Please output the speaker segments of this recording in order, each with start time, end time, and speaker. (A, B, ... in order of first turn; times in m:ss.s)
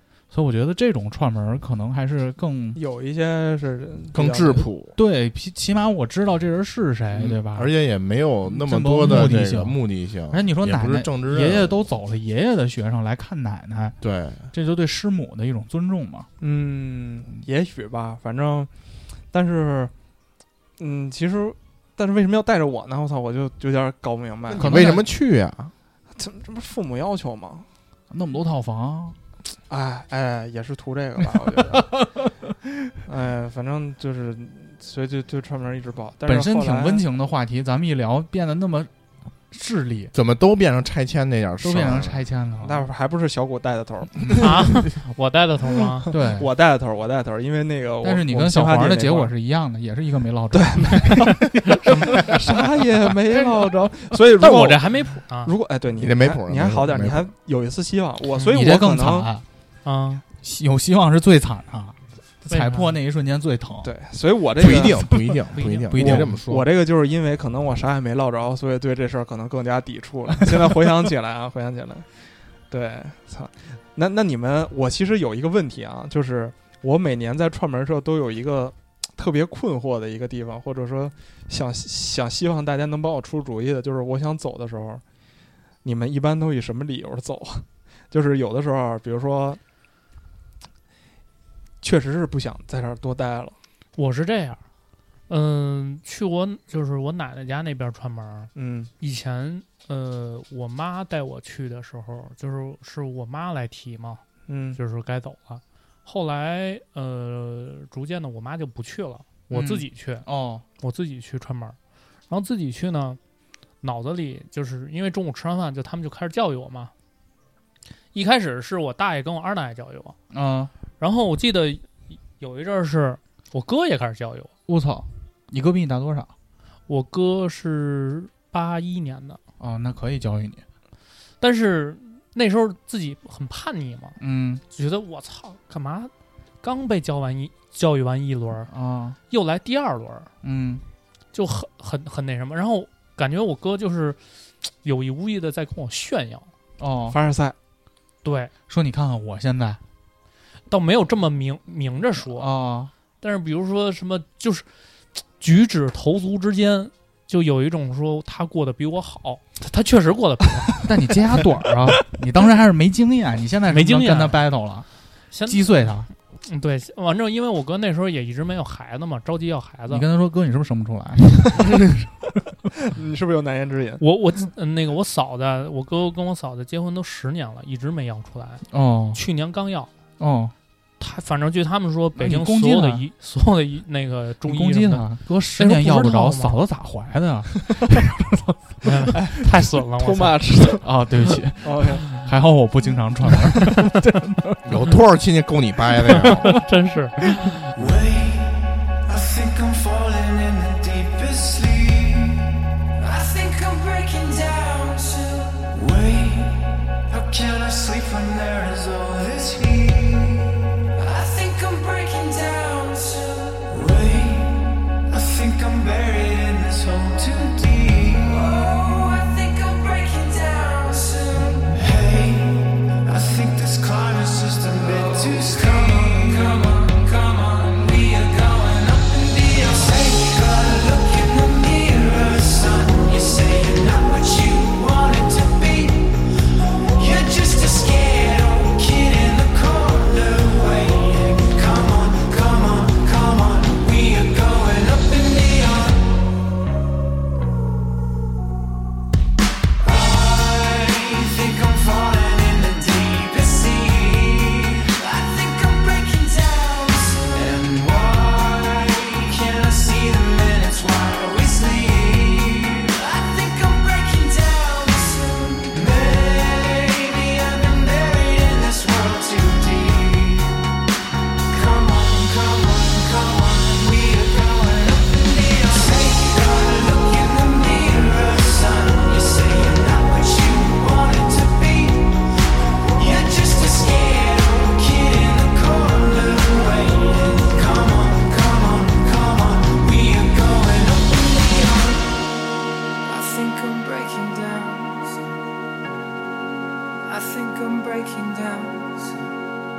0:00.3-0:02.8 A
0:02.7-0:04.7 B
0:04.1-0:05.0 C
0:05.0-0:07.7 A
0:07.1-0:11.9 C
0:08.5-0:14.0 A
0:14.0-0:14.5 C
0:14.5-0:16.3 A
0:16.4-0:18.7 B
0:19.3-0:19.9 B
0:20.8-0:24.9 B
0:24.5-0:25.7 C
0:24.6-0:25.0 A
0:26.1-0:27.7 B
0:28.1-0:29.2 A
0:29.7-0:31.9 B
0:33.0-0:37.0 B
0:36.3-0:38.9 A
0:39.5-0:40.1 A
0:40.1-0:42.3 C
0:41.6-0:42.8 A
0:42.6-0:44.8 B
0:44.4-0:46.1 D
0:45.8-0:49.3 B
0:46.1-0:46.5 A
0:48.0-0:52.6 A
0:50.5-0:51.5 B
0:51.7-0:52.2 D
0:52.0-0:59.3 B
0:53.3-0:53.7 A
0:54.4-0:55.5 D
0:56.0-0:57.3 C
0:58.5-0:59.4 A
0:59.8-1:00.2 D
1:00.4-1:03.9 A
1:02.5-1:03.0 D
1:03.8-1:05.0 B
1:04.6-1:06.5 C
1:04.6-1:06.6 A
1:05.5-1:06.0 D
1:06.0-1:12.1 B
1:12.7-1:25.0 B
1:25.8-1:29.6 B
1:31.8-1:33.6 B
1:34.0-1:34.6 D
1:35.3-1:44.2 D
1:38.6-1:38.9 B
1:44.5-1:44.8 B
1:44.7-1:50.3 D
1:49.5-1:50.6 A
1:50.8-1:51.8 D
1:52.3-1:53.2 D
1:53.8-1:56.9 D
1:58.1-2:00.2 D
2:00.3-2:00.7 A
2:01.0-2:04.5 D
2:04.7-2:06.3 A
2:06.9-2:09.4 D
2:09.6-2:10.6 A
2:11.4-2:14.2 D
2:14.2-2:14.6 A
2:14.7-2:18.7 D
2:18.7-2:19.2 A
2:19.3-2:20.3 D
2:20.4-2:20.8 A
2:21.3-2:26.5 D
2:26.8-2:27.2 A
2:27.1-2:27.6 B
2:28.2-2:28.5 D
2:28.7-2:29.8 A
2:30.7-2:32.5 D
2:32.3-2:32.9 A
2:33.2-2:40.9 D
2:40.8-2:44.9 A
2:43.7-2:44.4 D
2:45.3-2:45.8 D
2:45.4-2:46.1 A
2:46.4-2:50.1 D
2:49.9-2:52.0 A
2:52.8-2:54.0 B
2:54.0-2:59.9 D
2:58.7-2:59.2 A
3:00.2-3:00.5 A
3:01.0-3:06.6 D
3:02.2-3:03.0 A
3:04.4-3:08.9 A
3:08.8-3:10.4 D
3:09.1-3:10.9 B
3:10.8-3:14.7 A
3:11.6-3:12.1 B
3:13.4-3:13.8 D
3:14.6-3:16.6 C
3:16.1-3:17.6 D
3:16.2-3:16.6 A
3:17.7-3:56.4 E
3:56.9-4:06.1 E
4:09.8-4:30.6 E
4:31.5-4:42.2 E
4:43.0-4:52.1 E
4:53.0-4:55.2 E
4:57.0-4:59.3 E